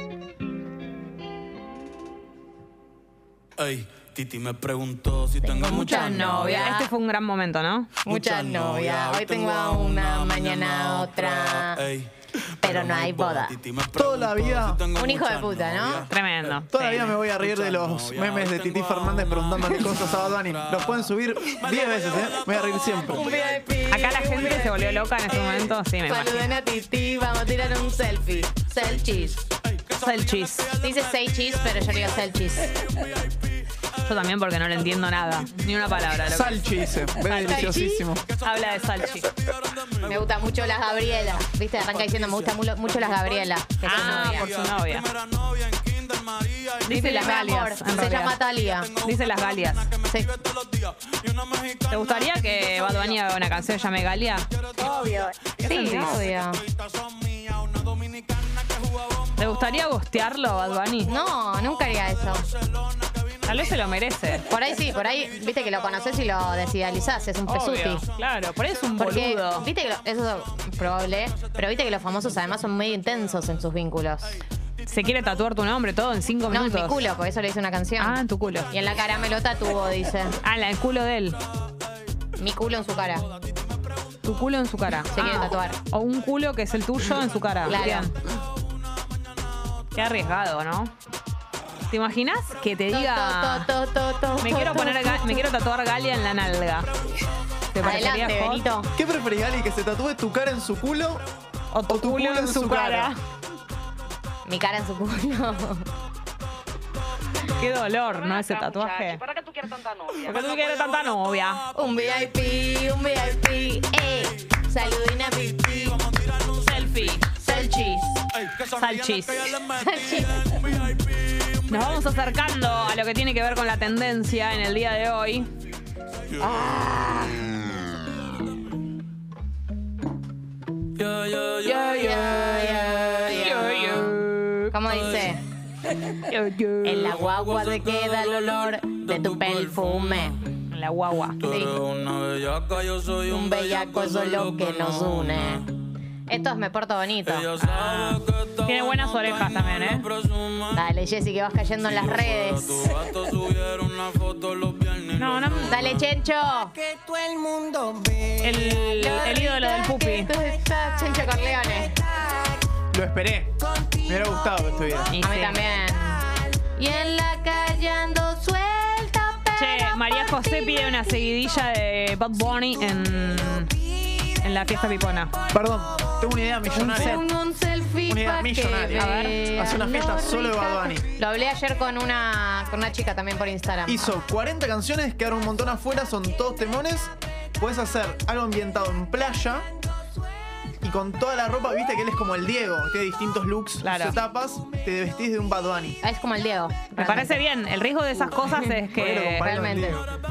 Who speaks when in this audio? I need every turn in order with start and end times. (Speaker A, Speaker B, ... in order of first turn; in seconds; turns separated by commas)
Speaker A: 3.6-6.6, Speaker B: 5.4-6.9, Speaker C: 5.7-7.9, Speaker B: 8.1-11.8, Speaker A: 8.1-24.8, Speaker B: 12.6-13.6, Speaker D: 13.9-14.8, Speaker B: 14.9-16.1, Speaker C: 16.1-17.2, Speaker D: 16.6-23.3, Speaker B: 23.1-29.4, Speaker C: 23.9-26.5, Speaker A: 29.5-33.9, Speaker C: 30.0-30.7, Speaker B: 30.8-32.8, Speaker C: 34.0-36.6, Speaker A: 35.8-37.0, Speaker D: 36.2-38.3, Speaker C: 37.2-37.7, Speaker B: 37.3-38.1, Speaker A: 38.2-40.3, Speaker C: 38.4-39.3, Speaker B: 40.0-44.5, Speaker A: 40.9-47.3, Speaker C: 43.8-45.1, Speaker C: 46.9-48.4, Speaker B: 46.9-48.9, Speaker A: 48.1-53.3, Speaker C: 49.0-49.9, Speaker C: 51.9-54.5, Speaker A: 54.5-59.4, Speaker B: 54.8-56.6, Speaker C: 55.6-56.1, Speaker C: 59.4-61.1, Speaker B: 61.1-62.5, Speaker A: 63.0-63.6, Speaker C: 63.5-64.5, Speaker B: 64.5-68.0, Speaker C: 67.5-69.7, Speaker B: 69.0-74.4, Speaker C: 74.8-77.0, Speaker B: 76.5-80.4, Speaker C: 78.0-78.7, Speaker C: 80.4-81.4, Speaker B: 82.4-83.3, Speaker C: 84.2-88.1, Speaker B: 85.1-85.8, Speaker B: 87.7-88.1, Speaker C: 90.0-90.9, Speaker C: 91.9-93.7, Speaker B: 92.9-95.5, Speaker C: 94.4-96.9, Speaker C: 97.7-98.6, Speaker B: 97.8-98.9, Speaker D: 99.0-101.2, Speaker C: 101.7-103.2, Speaker D: 101.9-103.1, Speaker B: 104.5-105.9, Speaker C: 107.5-109.3, Speaker C: 110.2-111.6, Speaker B: 111.7-116.0, Speaker A: 115.8-117.3, Speaker C: 116.6-117.3, Speaker B: 117.3-118.2, Speaker A: 118.3-122.2, Speaker C: 118.8-119.6, Speaker B: 119.8-120.4, Speaker C: 121.7-125.5, Speaker A: 126.4-126.6, Speaker B: 126.4-127.5, Speaker A: 131.0-133.2, Speaker B: 131.6-134.2, Speaker C: 133.3-134.8, Speaker B: 134.7-135.4, Speaker A: 134.9-135.3, Speaker C: 136.2-137.2, Speaker B: 136.8-140.4, Speaker A: 137.1-140.4, Speaker C: 140.7-141.4, Speaker A: 141.4-145.7, Speaker B: 141.4-141.8, Speaker B: 143.3-145.7, Speaker B: 146.3-147.5, Speaker A: 147.2-150.9, Speaker C: 147.6-150.1, Speaker B: 150.8-153.0, Speaker A: 151.8-156.1, Speaker C: 155.2-155.8, Speaker B: 155.7-156.7, Speaker E: 156.7-159.0, Speaker C: 158.4-160.3, Speaker B: 158.9-161.9, Speaker E: 161.9-162.6, Speaker D: 162.9-163.5, Speaker E: 163.6-164.6, Speaker D: 164.1-165.1, Speaker C: 165.1-165.6, Speaker B: 165.2-166.2, Speaker B: 166.8-170.9, Speaker C: 169.6-175.3, Speaker D: 175.5-177.3, Speaker B: 176.7-184.2, Speaker C: 176.8-177.2, Speaker D: 178.1-181.1, Speaker C: 178.9-179.4, Speaker D: 183.9-189.7, Speaker D: 190.8-196.0, Speaker C: 193.8-194.2, Speaker B: 196.0-197.4, Speaker C: 197.0-199.5, Speaker B: 198.4-198.8, Speaker D: 198.9-200.0, Speaker B: 199.4-200.0